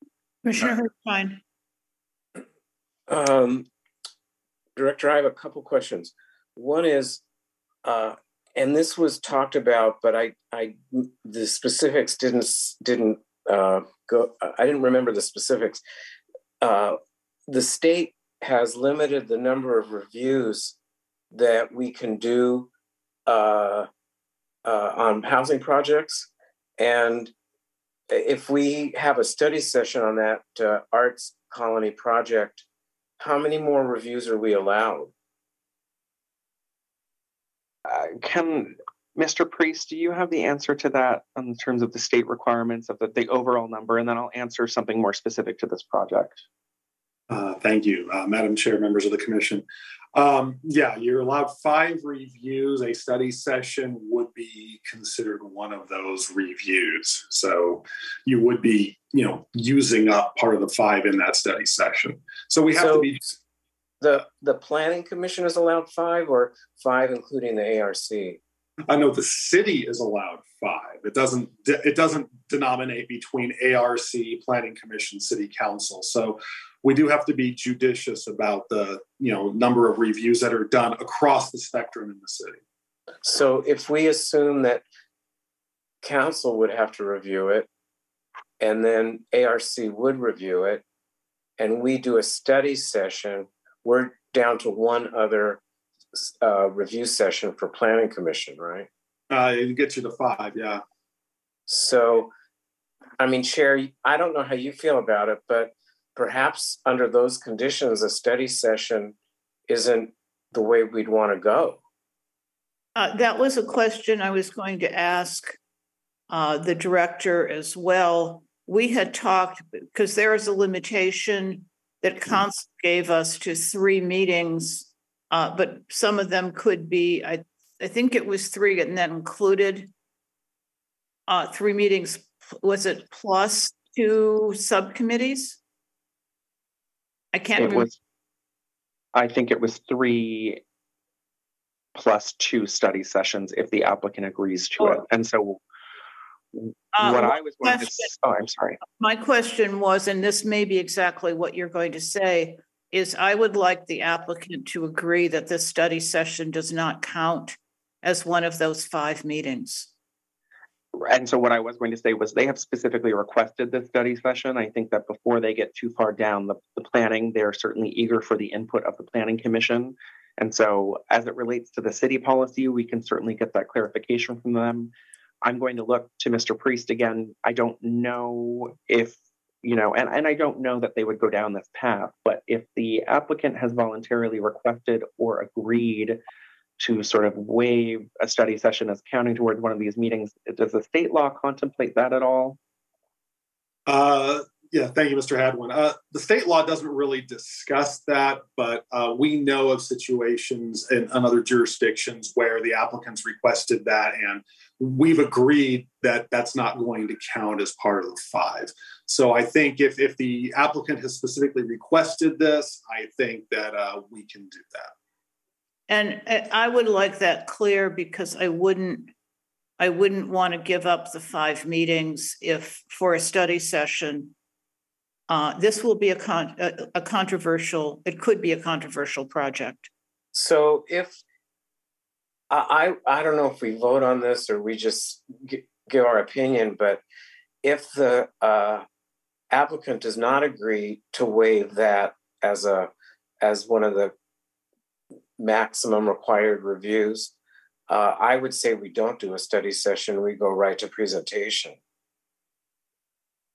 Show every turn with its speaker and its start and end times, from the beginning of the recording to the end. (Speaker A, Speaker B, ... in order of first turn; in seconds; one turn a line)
Speaker A: 0.4-1.4
Speaker B: 3.1-3.7
Speaker B: 4.8-7.2
Speaker B: 7.8-15.8
Speaker B: 16.6-20.8
Speaker B: 21.3-22.7
Speaker B: 23.2-23.9
Speaker B: 24.6-27.3
Speaker B: 28.1-32.6
Speaker B: 33.2-35.1
Speaker C: 37.9-46.4
Speaker D: 47.3-63.3
Speaker B: 62.7-63.1
Speaker B: 64.0-68.4
Speaker D: 68.9-82.6
Speaker B: 83.2-84.8
Speaker B: 86.0-87.7
Speaker B: 88.6-90.8
Speaker B: 91.6-95.6
Speaker B: 96.1-98.9
Speaker D: 99.3-100.8
Speaker B: 101.7-102.3
Speaker B: 103.2-109.2
Speaker B: 109.7-111.8
Speaker A: 113.0-115.6
Speaker A: 116.3-129.9
Speaker A: 131.3-135.6
Speaker A: 137.3-137.9
Speaker C: 137.6-138.0
Speaker C: 139.1-140.6
Speaker C: 141.9-145.6
Speaker C: 146.5-148.8
Speaker A: 146.9-148.1
Speaker A: 148.8-159.9
Speaker C: 160.9-174.9
Speaker C: 175.4-186.2
Speaker C: 186.8-192.6
Speaker D: 193.9-214.9
Speaker A: 215.9-219.1
Speaker A: 219.8-224.3
Speaker A: 225.3-229.9
Speaker B: 230.3-231.2
Speaker B: 232.5-237.0
Speaker B: 237.6-238.8
Speaker B: 239.5-242.9
Speaker B: 243.4-244.1
Speaker B: 245.4-247.3
Speaker B: 247.9-251.8